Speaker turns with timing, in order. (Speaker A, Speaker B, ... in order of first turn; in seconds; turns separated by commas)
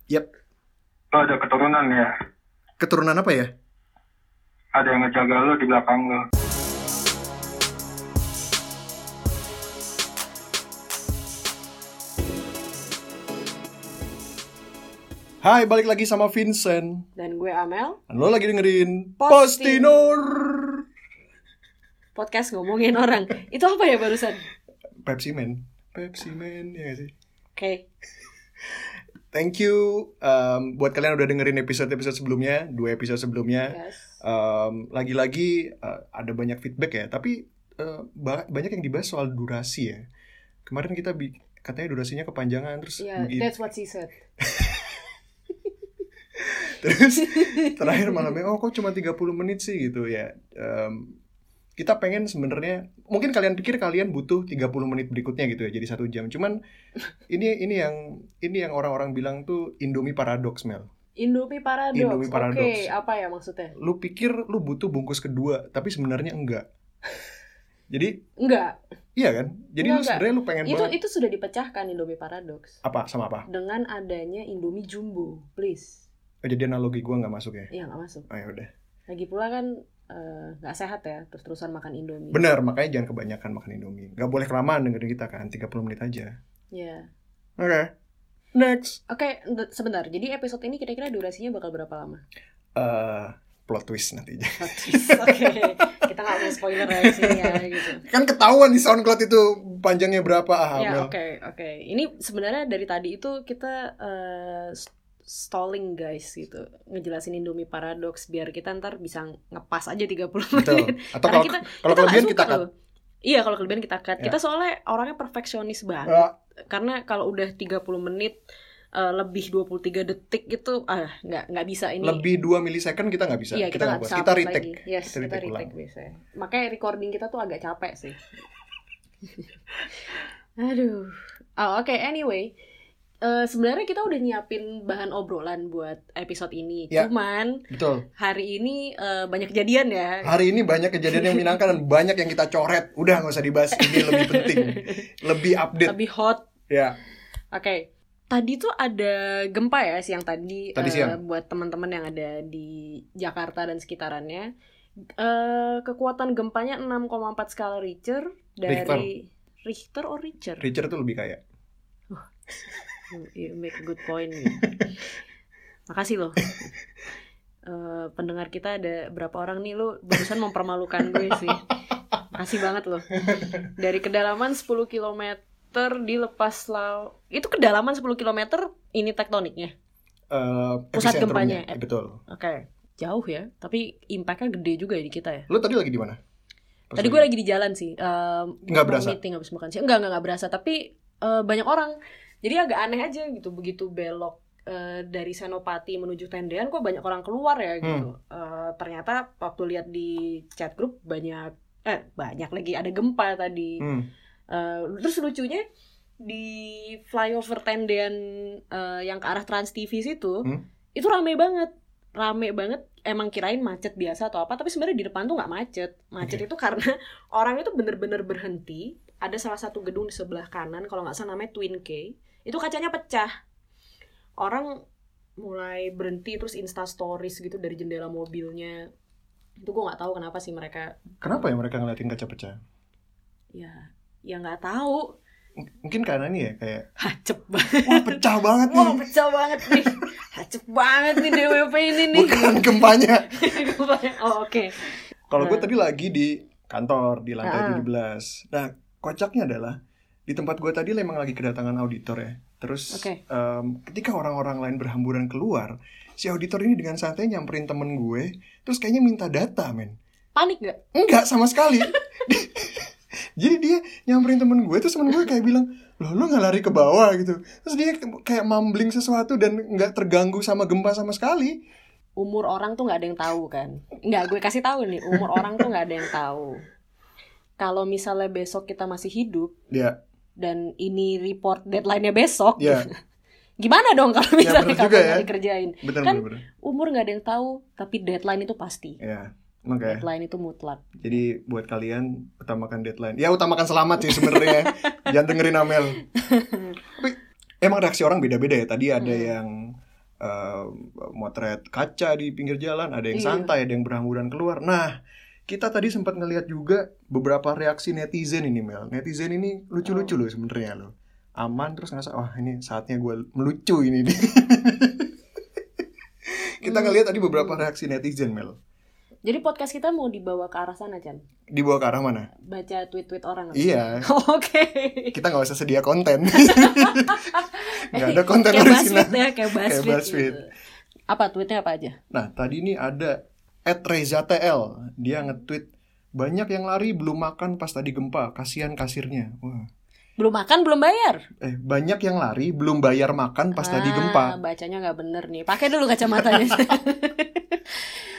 Speaker A: 1.1-2.1, Speaker B: 2.8-3.5, Speaker A: 4.8-6.2, Speaker B: 15.4-17.1, Speaker C: 17.2-18.0, Speaker B: 18.1-20.8, Speaker C: 19.2-20.2, Speaker C: 22.1-24.4, Speaker B: 25.0-27.1, Speaker C: 27.6-27.9, Speaker B: 29.3-40.0, Speaker C: 33.7-34.2, Speaker B: 40.7-43.5, Speaker C: 43.0-44.1, Speaker B: 44.4-45.0, Speaker B: 46.4-51.2, Speaker C: 47.3-48.1, Speaker B: 51.8-56.6, Speaker B: 57.3-60.9, Speaker C: 61.2-63.8, Speaker B: 61.9-62.9, Speaker B: 63.8-66.7, Speaker B: 67.9-68.2, Speaker C: 68.4-68.8, Speaker B: 69.2-71.0, Speaker C: 69.8-72.8, Speaker B: 72.8-73.5, Speaker C: 73.5-76.0, Speaker B: 76.4-77.7, Speaker C: 77.7-78.3, Speaker B: 78.3-78.7, Speaker C: 79.1-82.5, Speaker B: 82.3-86.3, Speaker C: 86.7-87.1, Speaker B: 87.6-87.9, Speaker B: 88.5-89.0, Speaker C: 89.1-92.2, Speaker B: 92.8-101.1, Speaker C: 94.6-98.0, Speaker C: 100.8-112.7, Speaker B: 110.6-112.6, Speaker C: 113.2-118.4, Speaker B: 116.1-116.3, Speaker C: 118.9-122.2, Speaker B: 122.0-125.7, Speaker C: 123.5-128.2, Speaker C: 130.6-132.6, Speaker C: 133.2-137.6, Speaker B: 137.7-138.1, Speaker C: 138.2-140.3, Speaker B: 140.2-146.0, Speaker C: 143.8-145.0, Speaker C: 145.8-146.4, Speaker B: 146.7-147.0, Speaker C: 147.5-154.5, Speaker B: 150.8-151.2, Speaker C: 155.2-160.7, Speaker B: 158.7-159.1, Speaker B: 160.6-161.4, Speaker C: 163.1-164.7, Speaker B: 164.5-164.8, Speaker C: 165.9-166.7, Speaker C: 167.7-171.7, Speaker C: 172.3-173.1, Speaker B: 173.2-173.7, Speaker C: 173.8-179.7, Speaker B: 180.3-182.2, Speaker C: 180.9-185.5, Speaker B: 185.5-186.2, Speaker B: 186.9-187.3, Speaker C: 186.9-203.9, Speaker B: 188.7-189.2, Speaker B: 203.8-204.1, Speaker C: 204.5-205.7, Speaker C: 206.2-223.3, Speaker C: 224.4-224.8, Speaker C: 225.4-228.9, Speaker C: 229.6-231.0, Speaker B: 231.2-232.6, Speaker C: 233.5-235.1, Speaker B: 235.6-236.9, Speaker C: 237.0-245.7, Speaker B: 237.8-239.0, Speaker B: 239.6-240.0, Speaker B: 241.2-243.3, Speaker B: 245.3-260.0, Speaker C: 247.4-247.9, Speaker C: 252.9-253.2, Speaker C: 260.4-260.8, Speaker B: 260.9-271.6, Speaker C: 272.2-276.6, Speaker C: 277.6-279.6, Speaker B: 279.7-280.0, Speaker C: 280.4-282.9, Speaker B: 282.6-282.9, Speaker C: 283.6-289.0, Speaker B: 284.4-285.3, Speaker B: 285.8-286.4, Speaker B: 289.0-290.1, Speaker C: 289.9-291.2, Speaker B: 291.0-296.0, Speaker C: 294.2-295.0, Speaker C: 296.2-296.8, Speaker B: 296.9-315.1, Speaker C: 299.0-299.3, Speaker C: 303.1-303.5, Speaker C: 309.9-310.1, Speaker B: 316.3-318.6, Speaker C: 316.6-317.6, Speaker C: 319.2-321.2, Speaker B: 321.5-322.3, Speaker C: 322.4-325.2, Speaker B: 323.5-324.1, Speaker B: 325.1-330.4, Speaker C: 326.3-330.5, Speaker C: 331.1-332.0, Speaker B: 332.1-339.7, Speaker C: 340.2-341.2, Speaker B: 341.4-344.4, Speaker C: 343.6-347.6, Speaker B: 346.1-346.6